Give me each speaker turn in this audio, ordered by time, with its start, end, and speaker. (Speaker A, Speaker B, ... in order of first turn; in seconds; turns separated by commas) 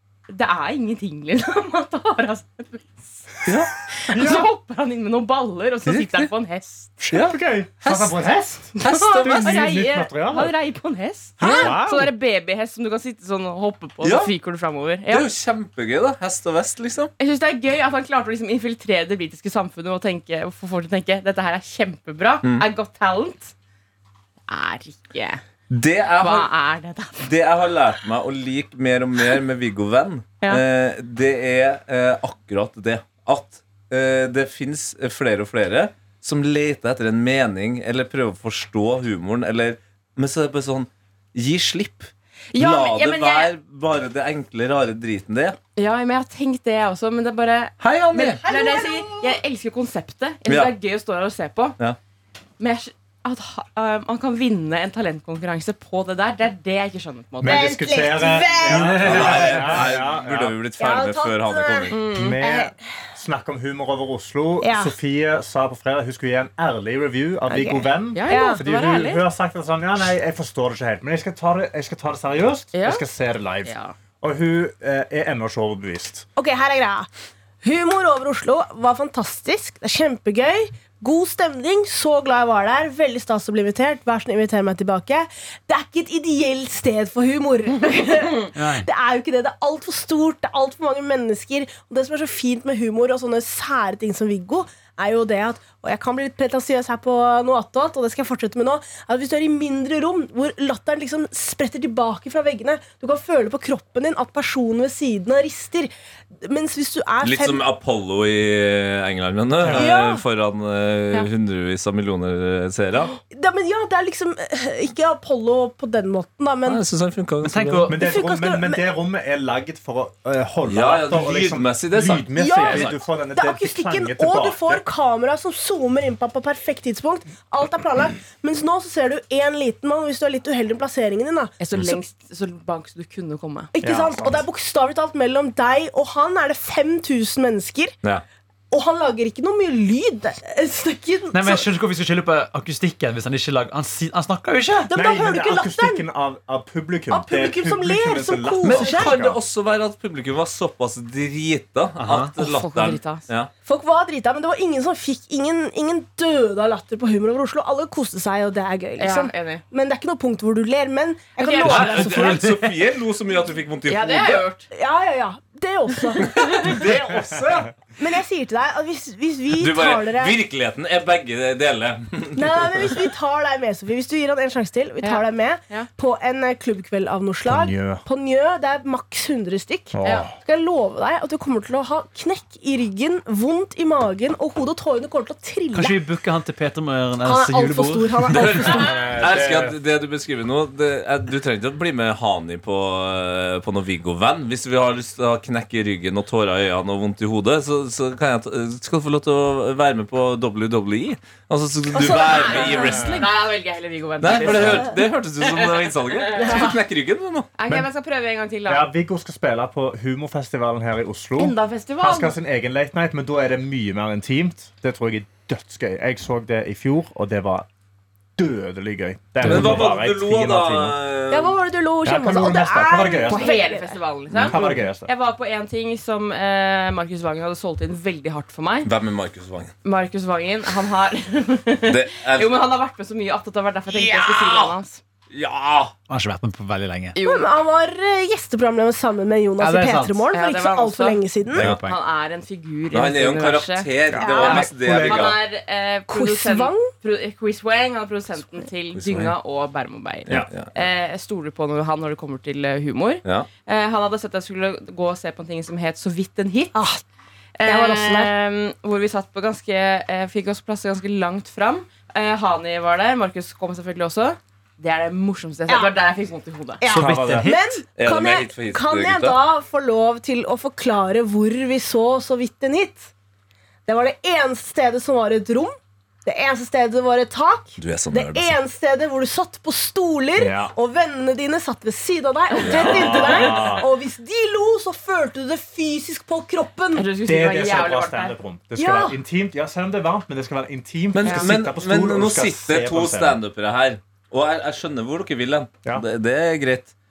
Speaker A: 0.3-3.2, Speaker B: 3.4-3.7, Speaker A: 4.0-6.9, Speaker C: 4.1-4.5, Speaker B: 5.8-6.3, Speaker C: 7.0-10.5, Speaker B: 7.1-8.2, Speaker B: 8.8-9.6, Speaker A: 8.8-15.3, Speaker C: 11.4-12.1, Speaker B: 11.4-11.8, Speaker B: 14.0-14.3, Speaker B: 15.1-17.1, Speaker A: 17.2-23.5, Speaker A: 24.5-25.4, Speaker B: 25.7-26.5, Speaker A: 26.2-27.3, Speaker B: 27.2-45.6, Speaker A: 42.5-43.5, Speaker A: 45.8-51.8, Speaker B: 47.8-48.4, Speaker D: 48.4-49.3, Speaker B: 50.5-50.7, Speaker A: 52.6-57.7, Speaker C: 57.4-60.5, Speaker D: 57.4-59.3, Speaker E: 58.7-59.7, Speaker B: 58.9-62.0, Speaker D: 60.8-62.8, Speaker A: 61.9-62.4, Speaker C: 62.1-76.2, Speaker D: 64.6-64.9, Speaker D: 67.5-68.6, Speaker A: 68.1-69.2, Speaker A: 72.7-73.0, Speaker A: 73.6-73.9, Speaker D: 76.3-77.1, Speaker D: 77.6-105.9, Speaker E: 88.5-88.9, Speaker D: 106.4-107.6, Speaker B: 107.2-113.1, Speaker C: 109.6-109.9, Speaker D: 109.7-110.2, Speaker D: 113.3-116.8, Speaker B: 116.6-117.9, Speaker E: 117.4-118.0, Speaker C: 117.9-124.8, Speaker D: 117.9-118.8, Speaker B: 120.7-122.9, Speaker D: 122.3-131.5, Speaker A: 131.6-133.7, Speaker D: 133.7-137.9, Speaker C: 133.8-134.4, Speaker D: 138.7-141.7, Speaker E: 141.3-144.9, Speaker D: 144.9-146.0, Speaker C: 144.9-149.4, Speaker D: 147.1-149.2, Speaker B: 148.6-153.5, Speaker E: 152.0-152.3, Speaker A: 152.3-153.2, Speaker D: 153.7-162.6, Speaker A: 159.0-159.6, Speaker A: 161.4-162.1, Speaker B: 161.7-164.4, Speaker E: 161.7-162.5, Speaker A: 163.8-164.7, Speaker D: 164.7-166.8, Speaker B: 166.2-167.7, Speaker D: 168.0-170.3, Speaker B: 169.5-173.1, Speaker D: 172.3-186.0, Speaker A: 175.0-175.9, Speaker C: 177.4-178.0, Speaker C: 179.9-180.3, Speaker A: 180.0-180.3, Speaker E: 185.7-188.7, Speaker D: 187.2-189.1, Speaker B: 188.3-203.3, Speaker C: 188.6-189.8, Speaker D: 201.9-203.2, Speaker A: 202.0-206.7, Speaker C: 202.8-203.2, Speaker B: 204.2-207.5, Speaker D: 204.4-204.9, Speaker D: 206.3-206.7, Speaker A: 207.5-208.9, Speaker C: 208.7-217.7, Speaker A: 211.4-212.3, Speaker C: 218.4-221.0, Speaker E: 219.4-219.9, Speaker B: 219.4-221.6, Speaker D: 221.3-224.0, Speaker C: 222.0-223.5, Speaker A: 223.3-228.9, Speaker C: 224.3-225.1, Speaker B: 228.8-229.7, Speaker A: 229.8-235.0, Speaker B: 231.9-232.5, Speaker B: 233.9-234.7, Speaker B: 235.3-235.9, Speaker E: 236.1-237.2, Speaker A: 237.1-237.5, Speaker D: 237.2-241.7, Speaker E: 239.6-240.2, Speaker A: 240.3-256.8, Speaker E: 241.5-242.0, Speaker B: 242.9-245.4, Speaker C: 244.1-245.4, Speaker D: 244.2-244.6, Speaker D: 246.1-246.9, Speaker B: 248.9-249.3, Speaker B: 250.3-250.7, Speaker D: 256.7-257.0, Speaker A: 257.6-266.8, Speaker D: 257.6-258.3, Speaker D: 265.7-265.9, Speaker D: 266.8-273.1, Speaker E: 266.9-267.8, Speaker C: 266.9-267.5, Speaker B: 268.0-269.4, Speaker D: 273.9-287.1, Speaker B: 277.8-278.6, Speaker C: 280.4-280.7, Speaker A: 282.5-283.6, Speaker B: 282.6-283.4, Speaker C: 282.7-283.9, Speaker A: 286.9-288.4, Speaker C: 287.2-293.4, Speaker D: 288.8-289.2, Speaker B: 291.1-296.9